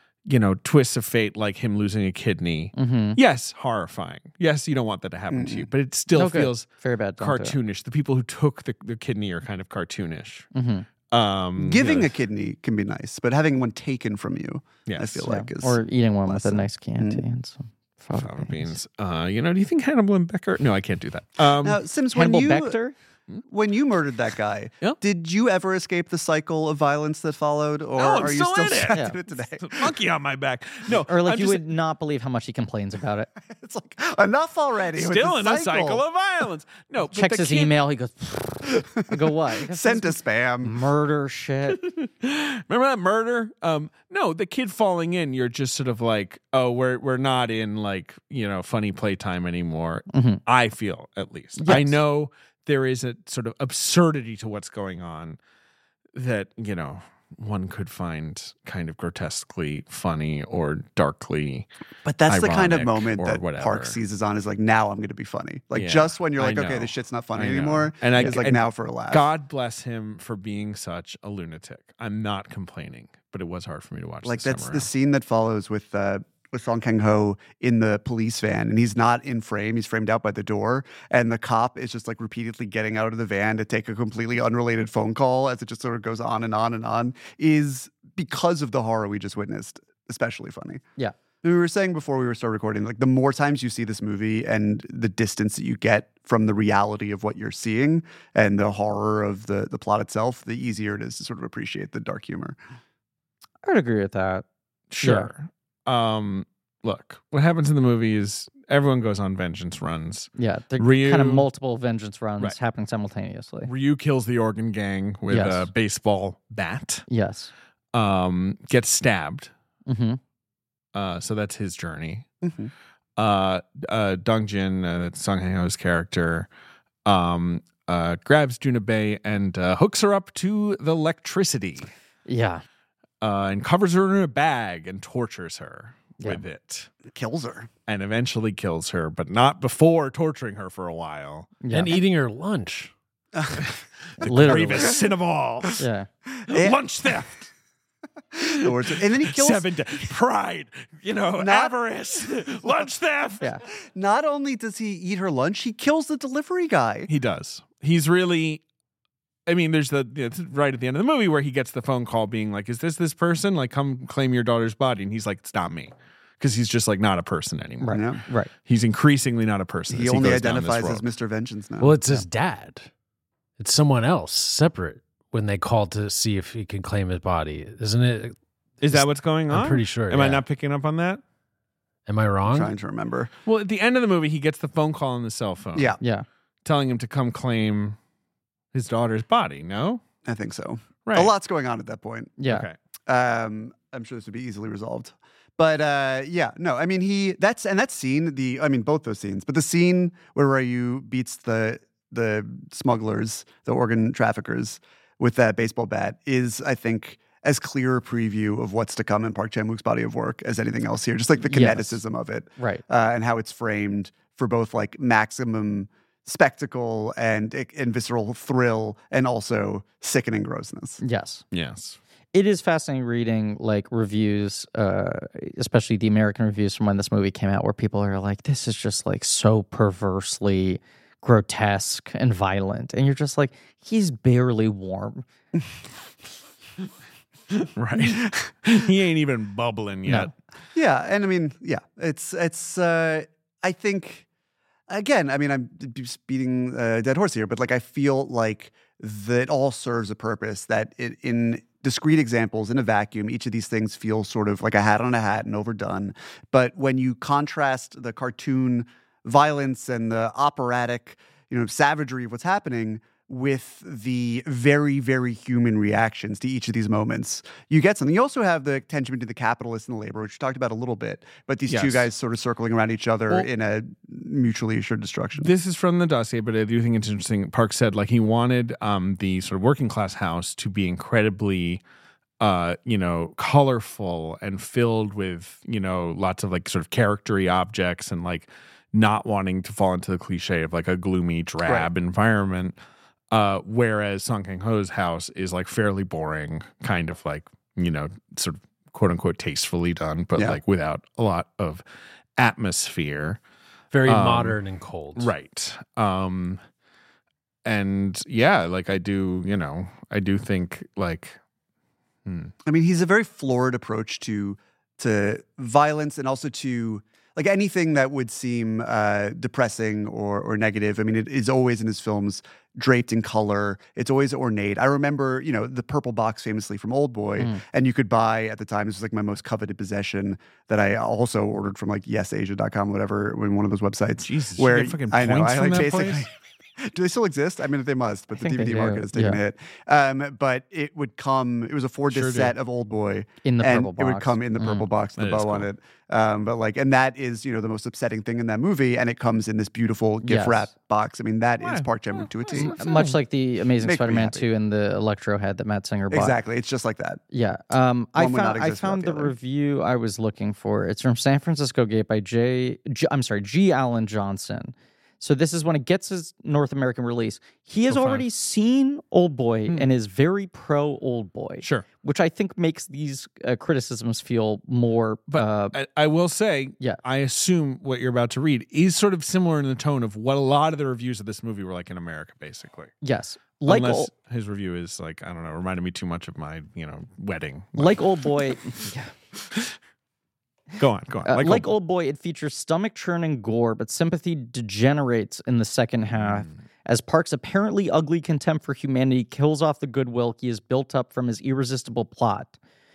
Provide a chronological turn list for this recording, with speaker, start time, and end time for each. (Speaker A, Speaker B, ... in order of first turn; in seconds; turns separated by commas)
Speaker A: 0.3-6.7, Speaker B: 2.7-3.2, Speaker C: 5.3-5.7, Speaker B: 6.1-7.6, Speaker A: 7.2-10.5, Speaker B: 10.5-10.9, Speaker A: 11.1-12.1, Speaker C: 11.6-17.2, Speaker A: 14.9-15.3, Speaker B: 15.3-18.8, Speaker A: 18.1-21.8, Speaker C: 21.6-22.8, Speaker B: 22.1-22.9, Speaker C: 23.5-30.0, Speaker A: 28.0-31.6, Speaker B: 31.0-33.3, Speaker C: 33.5-36.0, Speaker A: 35.0-37.8, Speaker B: 37.1-41.8, Speaker C: 39.1-40.8, Speaker A: 41.7-55.4, Speaker B: 50.1-50.4, Speaker B: 51.6-52.0, Speaker A: 56.1-61.7, Speaker C: 62.0-69.3, Speaker A: 62.3-64.0, Speaker A: 65.8-74.9, Speaker C: 74.2-90.8, Speaker C: 91.4-102.6, Speaker B: 103.6-104.5, Speaker A: 104.9-111.5, Speaker B: 105.0-105.3, Speaker B: 110.4-113.7, Speaker A: 113.7-117.0, Speaker B: 115.3-115.7, Speaker B: 117.1-117.5, Speaker A: 117.9-119.5, Speaker B: 119.9-120.2, Speaker A: 120.9-122.3, Speaker C: 122.4-122.7, Speaker A: 123.2-126.5, Speaker A: 127.0-131.9, Speaker B: 132.3-132.6, Speaker A: 133.2-136.9, Speaker C: 137.1-137.7, Speaker A: 137.9-141.6, Speaker B: 141.6-142.0, Speaker D: 141.7-142.9, Speaker C: 143.3-143.7, Speaker A: 143.5-145.8, Speaker B: 144.2-145.0, Speaker B: 145.8-146.1, Speaker C: 146.4-147.2, Speaker A: 146.5-147.5, Speaker C: 148.4-150.0, Speaker A: 148.4-153.5, Speaker C: 151.4-151.8, Speaker C: 153.7-157.1, Speaker A: 157.1-158.6, Speaker A: 159.5-171.1, Speaker B: 167.8-168.5, Speaker C: 167.9-168.2, Speaker C: 169.9-172.0, Speaker D: 171.8-172.9, Speaker D: 173.6-178.4, Speaker A: 178.8-181.2, Speaker D: 178.9-180.4, Speaker D: 182.1-182.7, Speaker C: 182.5-183.3, Speaker A: 183.5-186.0, Speaker B: 186.0-186.3, Speaker A: 186.7-188.0, Speaker A: 188.7-190.0, Speaker C: 190.2-192.4, Speaker A: 191.1-191.3, Speaker B: 192.4-192.7, Speaker A: 192.5-192.8, Speaker C: 193.1-221.0, Speaker B: 211.5-212.0, Speaker B: 212.6-212.8, Speaker B: 221.0-221.4, Speaker A: 221.5-222.0, Speaker B: 222.3-235.3, Speaker A: 237.5-240.3, Speaker B: 240.1-240.3, Speaker C: 240.8-244.3, Speaker C: 244.9-275.5, Speaker A: 271.7-272.1, Speaker A: 275.4-281.8, Speaker A: 282.4-292.8, Speaker C: 291.6-291.9, Speaker A: 293.3-301.8, Speaker A: 302.4-303.4, Speaker D: 303.9-305.3, Speaker A: 304.1-304.6, Speaker A: 305.2-306.6, Speaker A: 307.6-311.4, Speaker A: 312.3-312.5, Speaker C: 312.7-352.7, Speaker A: 334.2-336.3, Speaker B: 338.4-339.4, Speaker A: 342.1-342.5, Speaker B: 343.4-344.9, Speaker A: 345.2-345.7, Speaker B: 350.2-350.7, Speaker A: 351.6-353.2, Speaker B: 352.6-356.4, Speaker C: 353.8-354.5, Speaker C: 356.1-357.2, Speaker B: 357.3-375.8, Speaker C: 358.1-359.4, Speaker A: 367.9-368.3, Speaker A: 375.3-382.9, Speaker B: 383.0-384.1, Speaker A: 383.6-388.1, Speaker B: 387.8-389.1, Speaker A: 390.8-391.7, Speaker B: 391.2-402.6, Speaker A: 396.1-396.6